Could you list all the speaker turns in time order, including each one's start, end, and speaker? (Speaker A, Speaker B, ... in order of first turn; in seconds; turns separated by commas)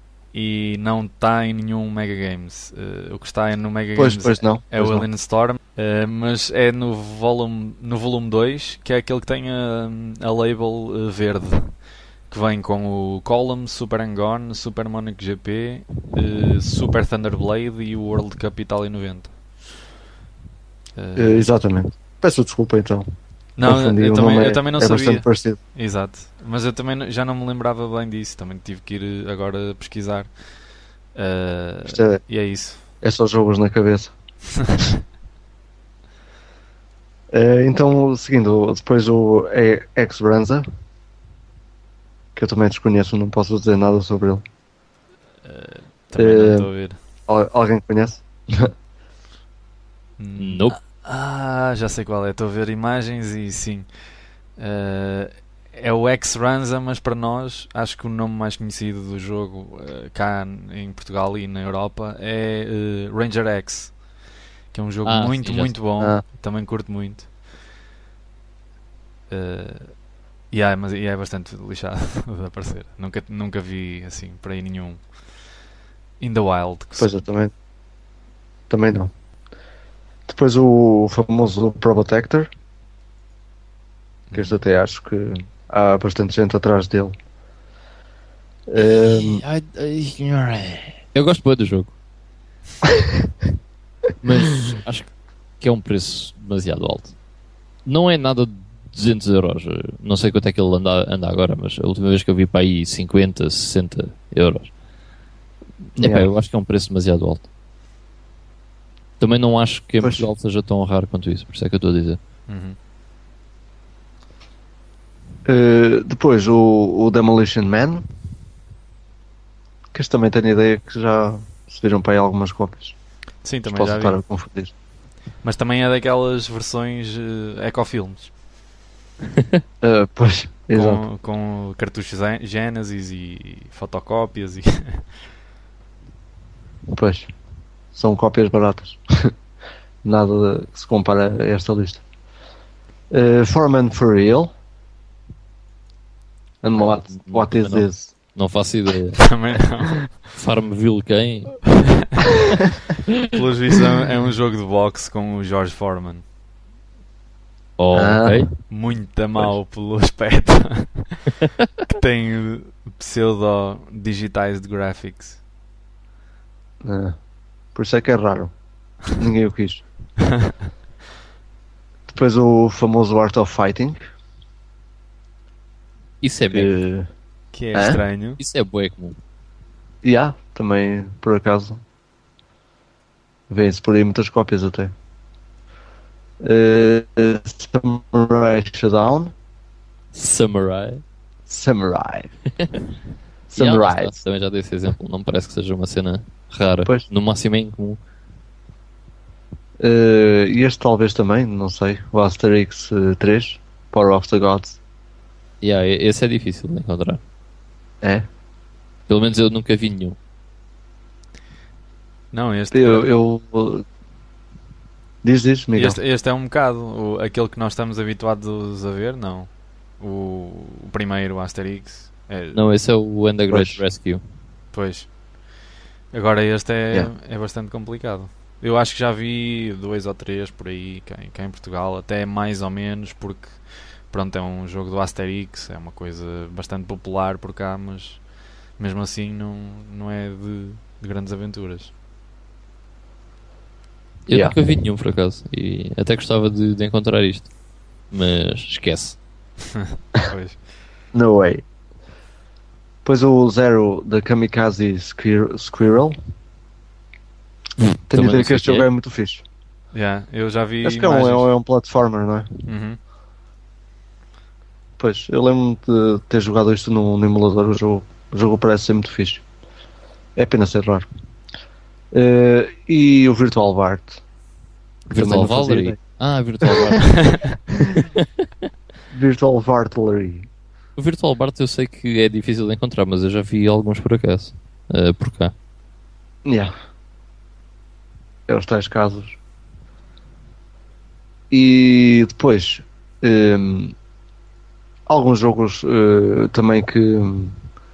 Speaker A: 0.3-11.8, Speaker B: 4.0-5.1, Speaker A: 12.3-19.4, Speaker A: 21.0-21.5, Speaker B: 21.2-23.1, Speaker A: 23.6-30.3, Speaker B: 23.6-25.6, Speaker A: 31.1-32.8, Speaker B: 31.9-32.2, Speaker B: 33.0-34.1, Speaker A: 34.6-34.9, Speaker B: 37.3-40.6, Speaker B: 42.4-44.4, Speaker A: 45.4-47.0, Speaker B: 46.2-46.7, Speaker B: 47.3-48.7, Speaker A: 50.2-53.9, Speaker C: 50.4-50.8, Speaker A: 54.6-64.0, Speaker A: 64.7-67.3, Speaker C: 65.0-65.8, Speaker A: 69.3-70.0, Speaker A: 70.5-75.0, Speaker A: 76.2-77.2, Speaker B: 77.0-77.5, Speaker B: 78.7-79.1, Speaker B: 80.3-82.5, Speaker A: 84.3-84.6, Speaker B: 84.3-87.1, Speaker B: 88.7-89.4, Speaker C: 89.1-91.9, Speaker C: 94.2-97.2, Speaker C: 97.9-104.7, Speaker C: 106.0-107.5, Speaker B: 106.0-106.3, Speaker C: 109.2-112.2, Speaker B: 110.0-110.3, Speaker A: 112.5-112.8, Speaker B: 115.5-118.0, Speaker B: 119.9-123.0, Speaker A: 123.4-124.2, Speaker B: 123.7-124.7, Speaker A: 125.4-128.3, Speaker B: 129.8-131.0, Speaker A: 130.7-135.2, Speaker B: 136.9-137.3, Speaker B: 137.9-139.3, Speaker B: 140.0-142.0, Speaker B: 143.1-144.5, Speaker B: 146.6-148.1, Speaker C: 146.8-149.2, Speaker A: 149.2-150.3, Speaker C: 150.3-151.6, Speaker A: 152.0-152.2, Speaker A: 153.2-156.2, Speaker C: 157.8-158.5, Speaker B: 157.9-158.5, Speaker A: 158.7-165.4, Speaker B: 166.8-167.2, Speaker B: 167.8-168.5, Speaker B: 169.2-169.8, Speaker A: 170.3-170.5, Speaker B: 172.1-174.0, Speaker C: 176.2-176.7, Speaker B: 176.5-177.1, Speaker A: 177.5-178.4, Speaker B: 177.7-178.0, Speaker C: 178.4-179.2, Speaker B: 180.0-181.8, Speaker B: 183.5-184.9, Speaker B: 186.4-189.3, Speaker C: 190.1-191.0, Speaker B: 191.5-192.3, Speaker B: 193.5-194.2, Speaker C: 193.6-198.0, Speaker B: 199.8-204.8, Speaker C: 205.6-207.2, Speaker B: 208.0-208.3, Speaker C: 209.1-210.2, Speaker A: 212.3-213.1, Speaker B: 212.7-213.9, Speaker B: 215.2-216.0, Speaker A: 215.8-222.6, Speaker C: 222.5-224.2, Speaker B: 223.5-223.8, Speaker A: 224.7-225.1, Speaker A: 226.1-238.2, Speaker A: 238.8-241.9, Speaker C: 244.3-247.5, Speaker B: 244.3-244.6, Speaker C: 248.1-249.2, Speaker A: 249.7-250.6, Speaker B: 251.1-251.6, Speaker B: 253.0-256.2, Speaker C: 257.8-258.9, Speaker B: 258.1-259.4, Speaker A: 259.9-261.5, Speaker B: 260.8-262.5, Speaker A: 262.6-263.0, Speaker B: 265.0-269.4, Speaker B: 270.4-271.1, Speaker B: 272.1-274.2, Speaker B: 275.1-276.0, Speaker C: 275.1-277.4, Speaker A: 277.2-277.6, Speaker C: 277.9-278.2, Speaker B: 279.1-280.5, Speaker C: 281.0-285.5, Speaker B: 286.4-286.7, Speaker B: 288.5-289.4, Speaker B: 291.5-293.9, Speaker B: 295.1-297.6